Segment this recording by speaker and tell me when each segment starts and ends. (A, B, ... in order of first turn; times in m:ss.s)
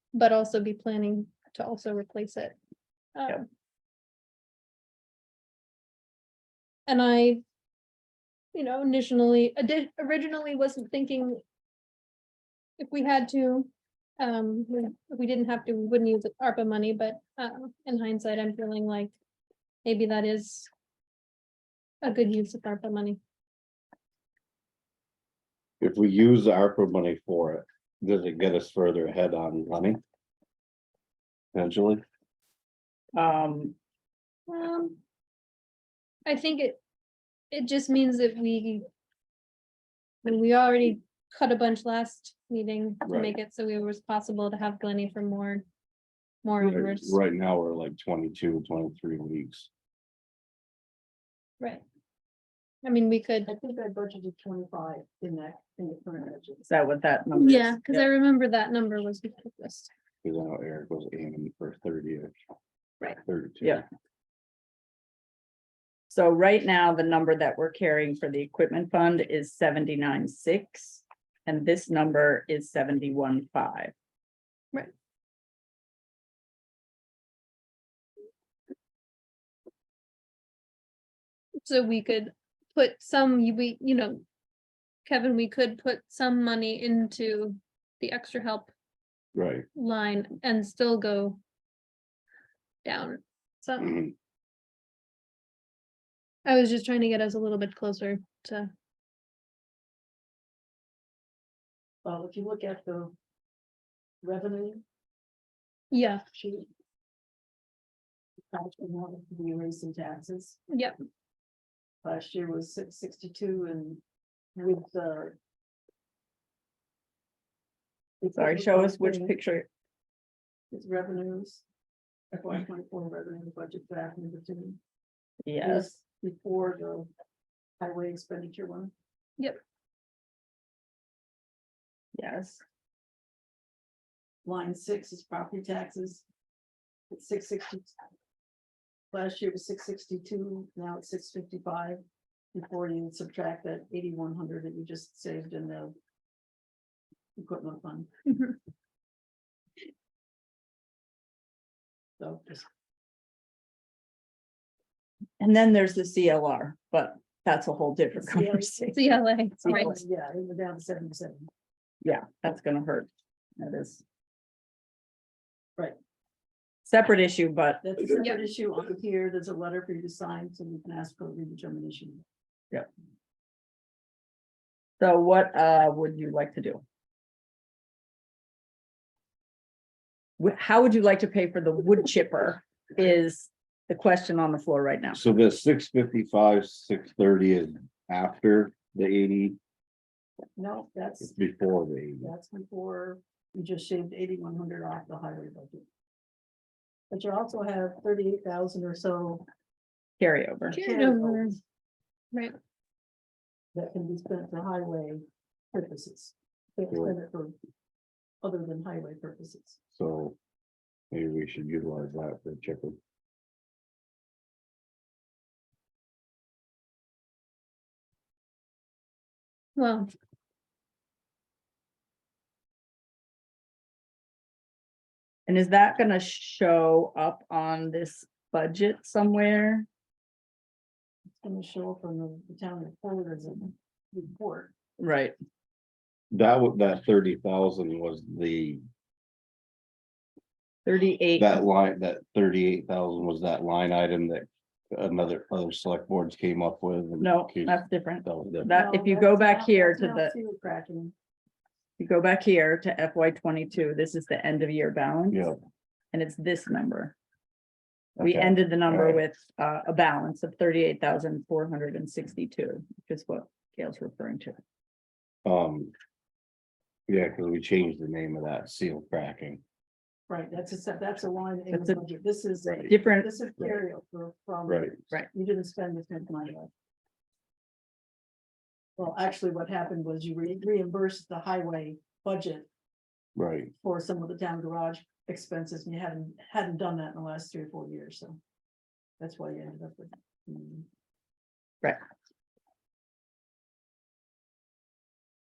0:00.1-0:02.6 A
0:03.1-0:03.4 A
0:06.9-0:07.4 A
0:08.5-0:11.4 A
0:12.8-0:19.1 A
0:19.8-0:20.7 A
0:22.0-0:23.2 A
0:25.8-0:30.0 B
0:31.5-0:32.0 B
0:33.1-0:33.7 C
0:34.5-0:35.0 A
0:36.2-0:36.8 A
0:37.5-0:38.8 A
0:40.2-0:45.6 A
0:43.0-0:43.3 B
0:46.4-0:47.2 A
0:46.6-0:49.7 B
0:52.8-0:53.5 A
0:53.4-0:56.6 D
0:56.6-0:58.0 C
0:57.3-0:59.9 A
1:00.2-1:02.3 B
1:03.2-1:03.8 B
1:06.1-1:13.9 C
1:21.6-1:24.2 A
1:25.0-1:28.7 A
1:29.3-1:29.6 B
1:29.7-1:31.4 A
1:32.8-1:34.0 A
1:36.4-1:38.7 A
1:42.0-1:43.1 D
1:44.2-1:44.8 D
1:45.9-1:46.2 A
1:46.3-1:46.7 D
1:48.5-1:50.6 D
1:52.0-1:54.0 D
1:54.6-1:55.4 D
1:58.2-1:59.3 D
1:58.3-1:59.7 C
2:00.7-2:01.6 D
2:02.3-2:04.8 D
2:05.4-2:05.8 C
2:05.6-2:07.1 D
2:07.8-2:08.9 D
2:12.1-2:12.6 C
2:14.4-2:16.2 D
2:17.1-2:17.9 D
2:19.1-2:22.0 D
2:22.5-2:25.9 D
2:27.4-2:28.1 D
2:28.3-2:28.5 A
2:32.2-2:32.6 D
2:35.4-2:40.0 C
2:38.2-2:39.0 D
2:38.9-2:40.0 A
2:39.6-2:41.5 D
2:42.0-2:44.0 C
2:46.8-2:48.0 C
2:47.8-2:52.2 D
2:48.1-2:48.4 A
2:55.0-2:56.8 C
3:00.4-3:05.2 C
3:05.1-3:09.6 B
3:10.6-3:11.3 D
3:11.2-3:12.3 B
3:12.2-3:15.8 D
3:17.1-3:19.4 D
3:20.2-3:20.8 C
3:20.7-3:21.6 D
3:20.7-3:21.6 A
3:23.7-3:27.5 D
3:28.4-3:29.8 D
3:30.0-3:30.4 B
3:31.1-3:33.0 B
3:39.8-3:40.1 A
3:45.5-3:49.8 C
3:51.4-3:54.7 D
3:55.0-3:55.3 C
3:56.3-3:58.8 B
4:00.8-4:01.6 C
4:01.4-4:08.7 B
4:07.2-4:10.3 C
4:08.7-4:11.1 D
4:12.0-4:15.5 C
4:16.1-4:17.1 C
4:18.2-4:19.2 B
4:18.2-4:24.6 C
4:25.4-4:25.9 B
4:27.1-4:29.6 B
4:30.3-4:36.7 D
4:31.7-4:32.0 C
4:32.9-4:33.4 C
4:34.7-4:34.9 B
4:39.0-4:42.7 D
4:43.4-4:43.7 B
4:43.8-4:48.4 D
4:49.2-4:50.9 D